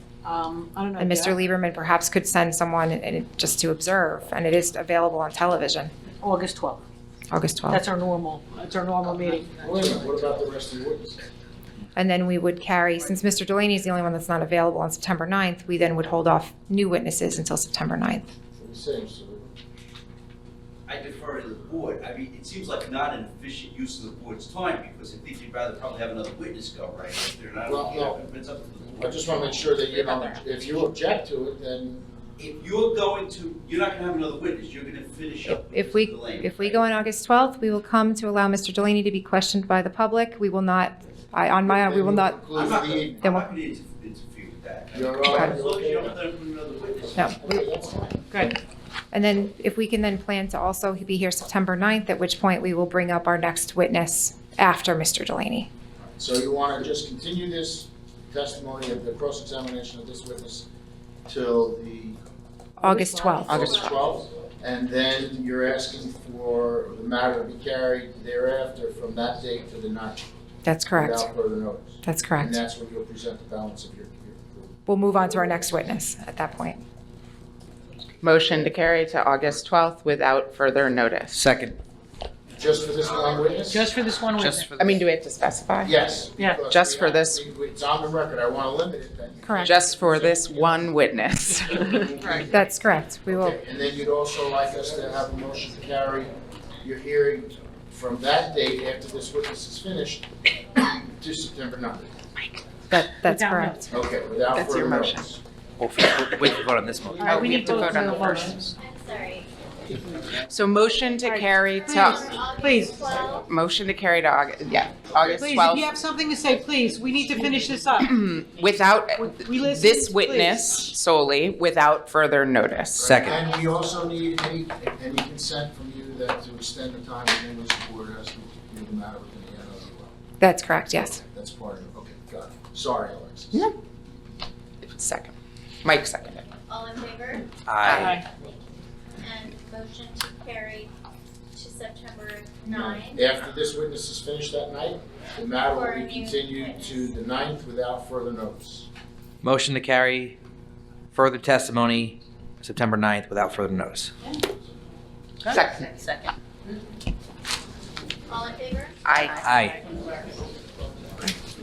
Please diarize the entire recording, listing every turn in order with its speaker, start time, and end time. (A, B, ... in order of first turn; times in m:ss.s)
0:00.2-0:01.4 A
0:01.0-0:05.9 B
0:06.2-0:06.8 A
0:07.3-0:07.8 B
0:07.7-0:10.3 A
0:09.5-0:11.3 C
0:12.0-0:18.3 B
0:18.6-0:19.5 C
0:20.9-0:29.8 D
0:27.6-0:28.2 C
0:29.0-0:32.1 C
0:32.4-0:36.9 D
0:35.7-0:42.4 B
0:41.6-0:43.4 C
0:42.5-0:47.4 D
0:43.2-0:43.5 B
0:44.9-0:46.2 C
0:45.3-0:45.6 B
0:47.3-0:48.6 C
0:49.1-0:55.7 B
0:56.2-1:00.7 C
1:01.3-1:02.2 C
1:02.8-1:03.7 B
1:02.8-1:03.4 A
1:03.3-1:03.9 E
1:03.4-1:10.3 C
1:03.5-1:03.8 F
1:10.6-1:11.3 B
1:10.9-1:14.7 C
1:12.0-1:12.6 B
1:14.9-1:16.8 B
1:18.2-1:21.4 F
1:18.4-1:18.7 C
1:21.3-1:21.8 G
1:22.6-1:23.9 C
1:23.7-1:24.7 A
1:24.6-1:26.1 F
1:25.8-1:32.8 C
1:26.4-1:26.7 A
1:26.7-1:27.4 F
1:29.6-1:32.1 F
1:32.5-1:33.6 B
1:33.3-1:40.3 C
1:40.9-1:42.1 C
1:42.9-1:43.8 B
1:43.3-1:43.8 A
1:43.9-1:45.4 C
1:44.5-1:45.2 F
1:45.8-1:47.4 G
1:47.2-1:48.8 A
1:47.2-1:48.7 F
1:48.8-1:49.5 E
1:50.5-1:52.3 F
1:51.2-1:53.1 A
1:52.1-1:53.5 E
1:53.2-1:56.0 F
1:55.4-1:58.2 A
1:58.0-2:03.2 F
1:59.2-2:00.9 A
2:03.0-2:10.2 C
2:03.0-2:03.4 G
2:03.4-2:04.1 E
2:10.4-2:11.2 B
2:11.3-2:13.7 C
2:14.8-2:15.3 F
2:15.8-2:16.4 F
2:16.5-2:20.9 E
2:17.7-2:18.2 G
2:17.9-2:18.2 F
2:18.0-2:18.2 A
2:21.5-2:23.2 E
2:22.7-2:28.9 C
2:25.7-2:27.2 E
2:29.4-2:30.4 G
2:31.1-2:34.1 G
2:35.5-2:36.3 F
2:38.3-2:39.0 E
2:39.0-2:39.5 F
2:39.4-2:39.8 G